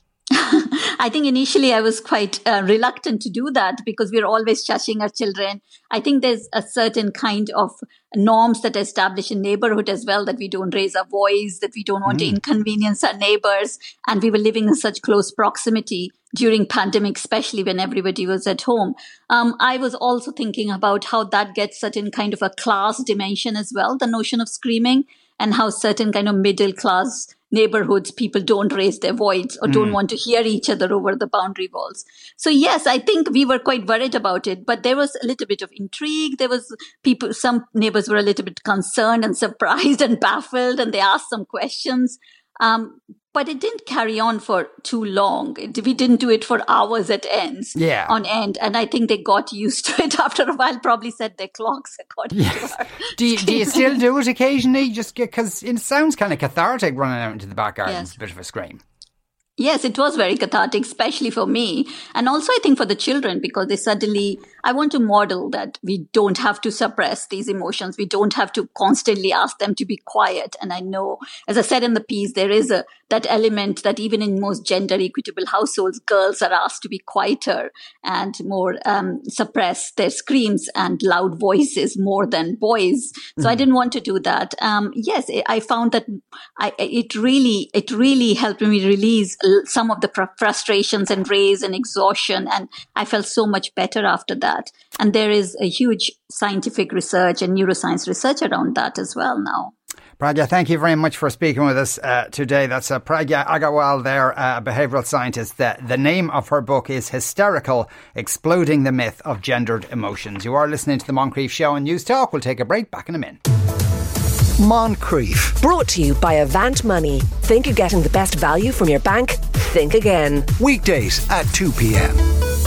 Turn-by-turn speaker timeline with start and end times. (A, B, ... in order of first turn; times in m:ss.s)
0:00.3-0:54.0 A
0:12.1-0:12.4 B
0:29.7-0:30.0 B
0:47.8-0:48.1 B
0:52.3-0:58.8 B
0:57.9-0:58.1 A
0:59.6-1:39.7 A
1:40.2-1:53.4 B
1:54.6-1:55.6 C
1:55.6-2:00.5 D
2:00.6-2:02.2 C